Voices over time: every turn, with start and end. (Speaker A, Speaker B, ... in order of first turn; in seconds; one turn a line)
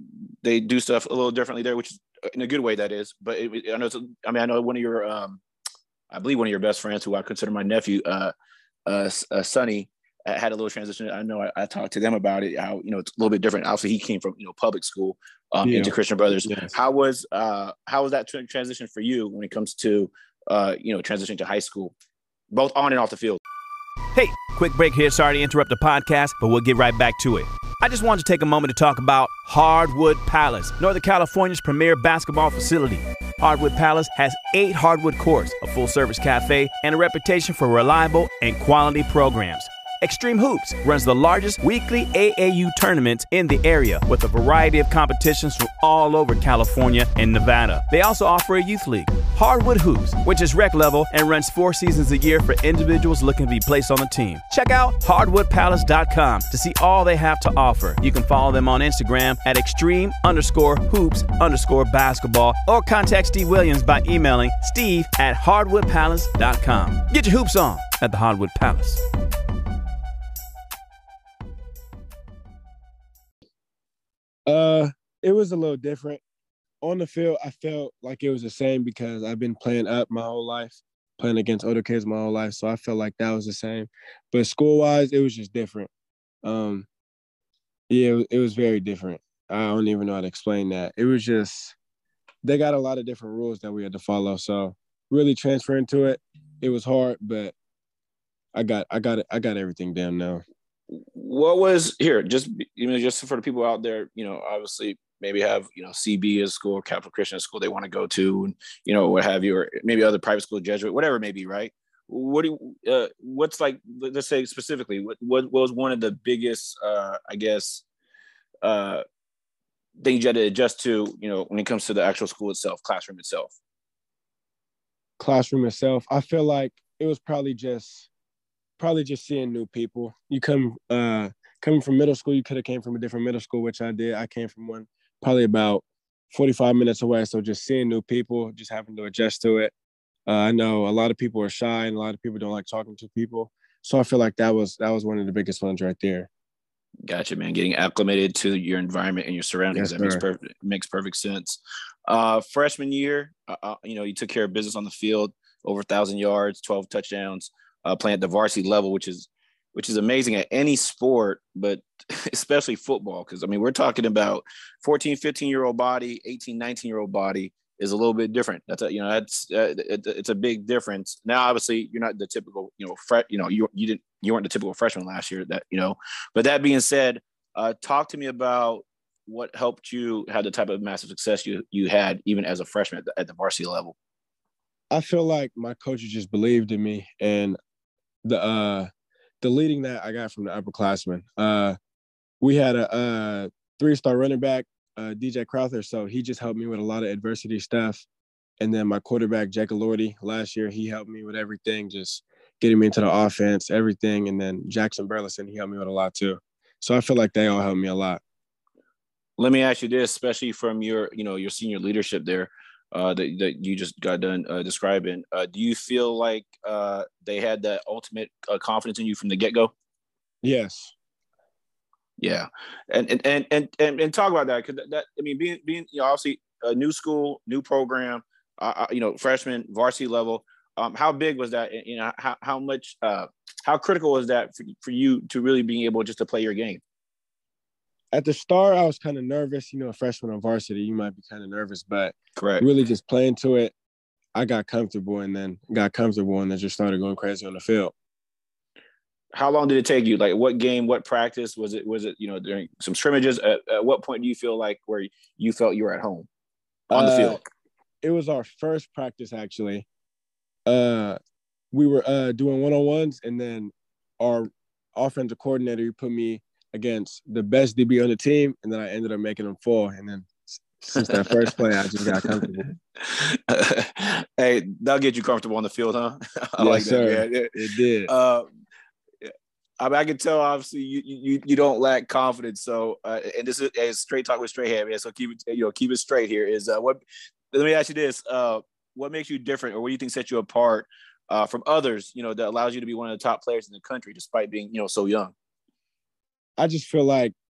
Speaker A: 0.4-5.4
Speaker A: 6.1-8.3
Speaker A: 8.8-21.9
Speaker B: 15.6-16.7
Speaker A: 22.5-23.4
Speaker C: 24.1-69.0
Speaker B: 74.5-76.2
Speaker B: 76.8-85.9
Speaker B: 86.4-86.9
Speaker B: 87.9-91.7
Speaker B: 92.4-97.5
Speaker B: 98.5-100.4
Speaker A: 100.9-117.8
Speaker A: 118.6-119.0
Speaker A: 120.0-123.5
Speaker B: 125.2-128.1
Speaker B: 128.8-139.7
Speaker B: 140.3-146.3
Speaker A: 147.1-183.9
Speaker B: 149.7-150.2
Speaker B: 184.9-187.6
Speaker B: 188.2-188.9
Speaker B: 189.4-191.8
Speaker B: 192.4-198.0
Speaker B: 198.6-208.2
Speaker A: 209.4-219.7
Speaker B: 220.4-220.9
Speaker A: 222.2-236.8
Speaker B: 238.1-243.7
Speaker A: 242.4-242.7
Speaker B: 244.3-247.9
Speaker A: 249.3-256.3
Speaker B: 256.9-257.4
Speaker A: 256.9-257.4
Speaker B: 258.0-259.9
Speaker B: 260.7-261.2
Speaker B: 261.7-272.6
Speaker A: 271.0-277.5
Speaker B: 276.6-278.1
Speaker A: 278.1-278.5
Speaker A: 279.2-287.0
Speaker A: 287.5-295.3
Speaker B: 296.6-297.3